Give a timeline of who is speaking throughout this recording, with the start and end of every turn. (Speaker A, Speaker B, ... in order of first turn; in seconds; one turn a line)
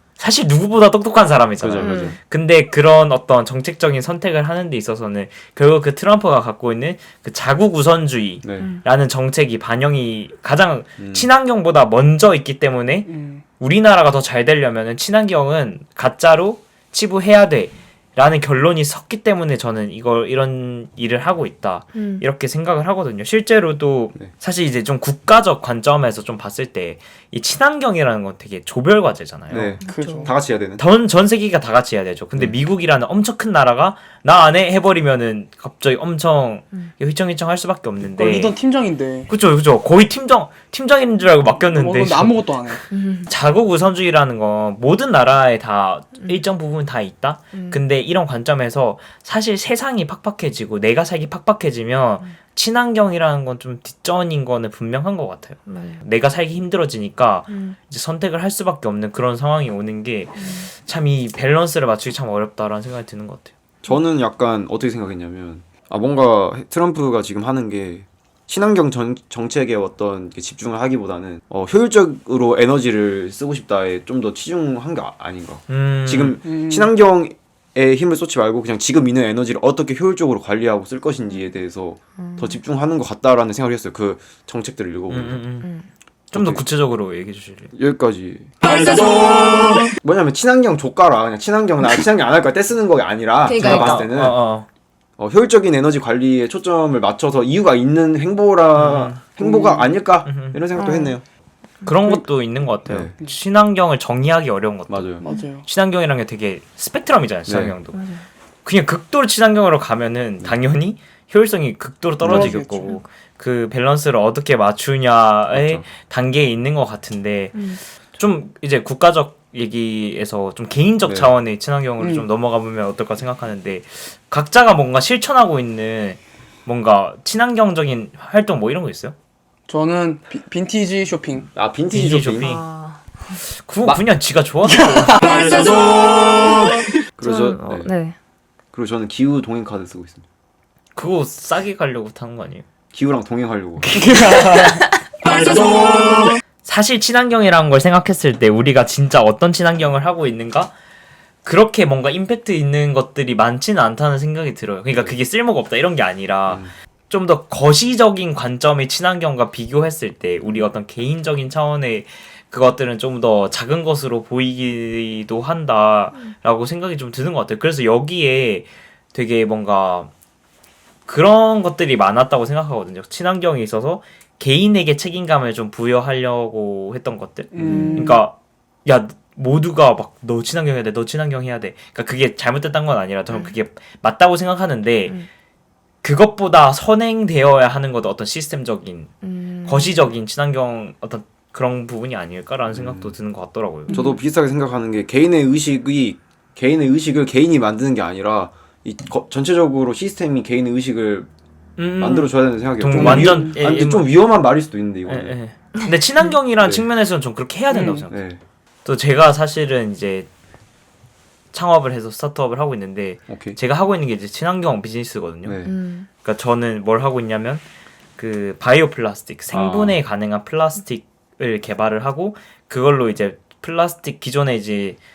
Speaker A: 0.2-29.8
Speaker B: 1.6-2.1
Speaker C: 1.8-2.2
Speaker B: 8.4-8.7
Speaker B: 11.0-11.3
Speaker D: 13.1-13.4
Speaker C: 21.9-22.2
Speaker B: 29.5-30.8
Speaker C: 29.8-30.3
Speaker D: 29.9-30.3
Speaker A: 30.8-38.5
Speaker D: 38.1-39.3
Speaker A: 39.3-63.5
Speaker D: 41.7-42.8
Speaker C: 42.9-43.3
Speaker C: 47.5-47.8
Speaker C: 55.6-56.0
Speaker C: 57.5-57.8
Speaker C: 60.4-60.7
Speaker B: 63.8-85.4
Speaker A: 75.7-76.4
Speaker D: 76.4-76.9
Speaker C: 82.2-82.6
Speaker A: 85.1-85.7
Speaker A: 86.3-87.7
Speaker B: 86.3-86.6
Speaker B: 87.7-88.5
Speaker B: 90.0-94.4
Speaker C: 93.4-94.1
Speaker A: 93.6-94.7
Speaker B: 95.2-101.2
Speaker A: 98.7-99.2
Speaker D: 99.4-99.9
Speaker A: 100.2-100.6
Speaker C: 100.7-101.2
Speaker A: 101.8-108.0
Speaker B: 102.8-103.1
Speaker B: 104.9-105.2
Speaker D: 105.2-105.6
Speaker B: 107.5-107.7
Speaker C: 107.9-108.2
Speaker A: 108.6-129.1
Speaker B: 112.2-112.5
Speaker D: 112.3-113.0
Speaker C: 112.6-113.0
Speaker B: 115.5-115.9
Speaker C: 117.5-117.8
Speaker B: 121.0-121.3
Speaker D: 122.0-122.3
Speaker D: 129.7-131.5
Speaker B: 131.5-132.5
Speaker A: 131.9-132.6
Speaker C: 132.4-133.4
Speaker A: 133.4-135.1
Speaker D: 134.6-136.5
Speaker B: 137.2-137.9
Speaker C: 137.2-138.2
Speaker B: 138.7-140.2
Speaker A: 140.9-142.7
Speaker B: 142.9-144.1
Speaker D: 143.9-144.9
Speaker A: 146.6-150.7
Speaker A: 151.4-170.1
Speaker B: 156.5-156.7
Speaker A: 171.1-178.3
Speaker D: 177.5-178.2
Speaker C: 177.7-178.0
Speaker A: 178.8-185.2
Speaker C: 183.3-183.5
Speaker A: 186.0-189.1
Speaker C: 189.2-190.1
Speaker A: 189.6-193.9
Speaker B: 192.7-193.1
Speaker C: 193.9-194.2
Speaker B: 193.9-201.3
Speaker A: 201.8-204.1
Speaker B: 202.0-205.4
Speaker D: 202.9-203.6
Speaker A: 205.1-208.2
Speaker D: 207.7-208.1
Speaker B: 208.1-208.4
Speaker A: 208.8-210.3
Speaker A: 211.5-215.6
Speaker B: 213.3-213.6
Speaker B: 215.4-215.7
Speaker C: 215.6-216.1
Speaker A: 216.2-217.6
Speaker A: 218.2-225.0
Speaker B: 219.5-220.0